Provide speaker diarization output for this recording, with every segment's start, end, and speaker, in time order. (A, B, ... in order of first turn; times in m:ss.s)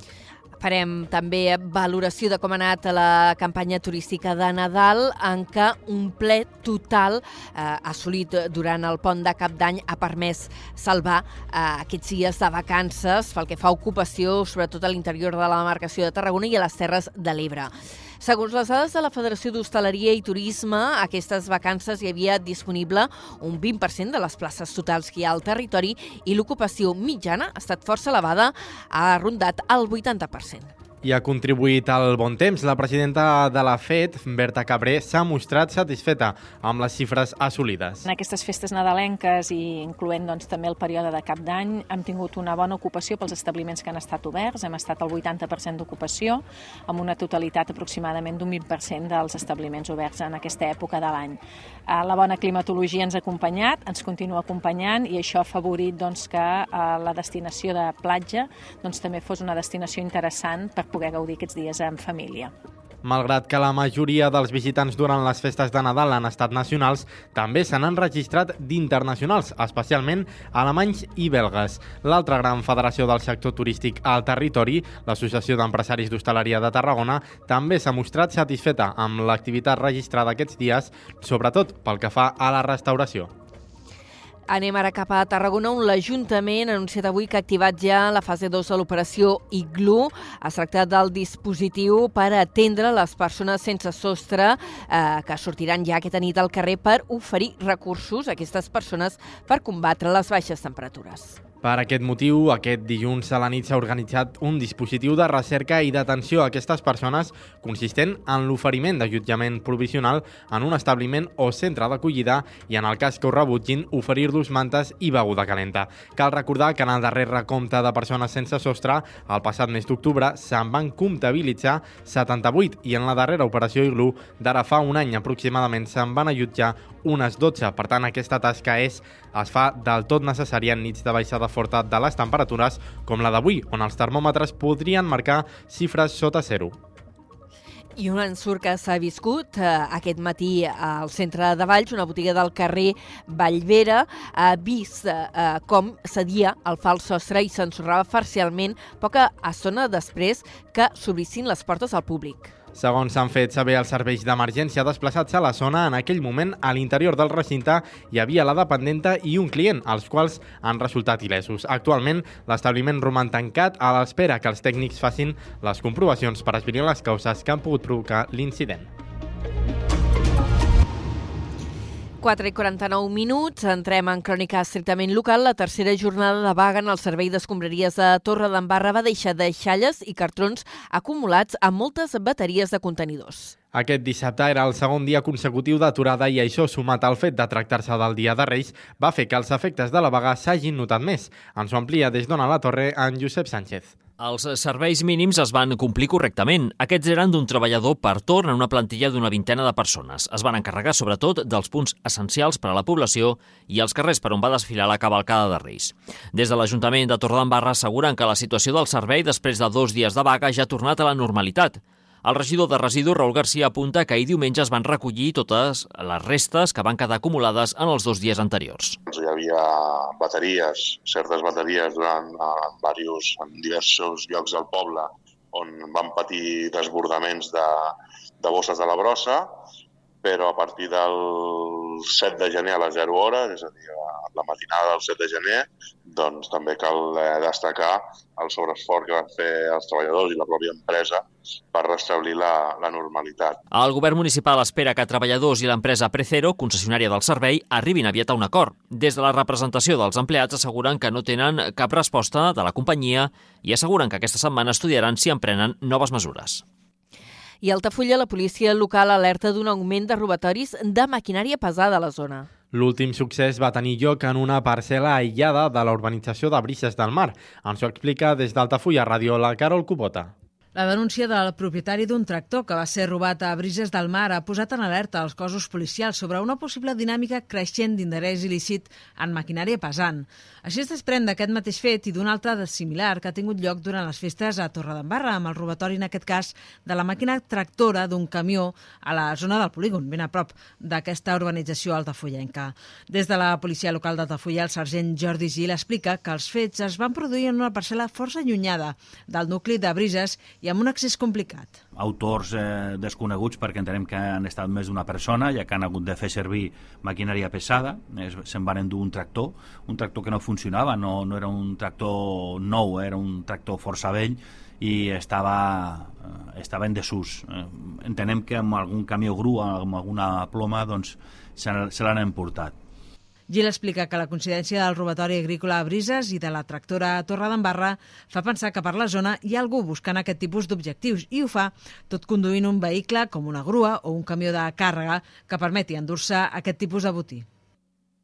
0:00.6-0:30.7 A
0:31.0-0:38.0 B
0:38.1-1:02.5 C
1:03.0-1:23.3 B
1:24.5-1:41.4 A
1:41.6-2:16.8 B
2:18.0-2:32.5 A
2:32.8-2:48.9 B
2:52.2-3:03.6 A
3:03.7-3:14.0 B
3:14.2-3:39.0 D
3:39.1-3:49.5 E
3:50.2-4:03.6 E
4:03.7-4:16.6 D
4:17.6-4:22.5 A
4:22.7-4:30.3 B
4:30.8-5:01.8 F
5:02.0-5:22.8 G
5:23.5-5:37.4 F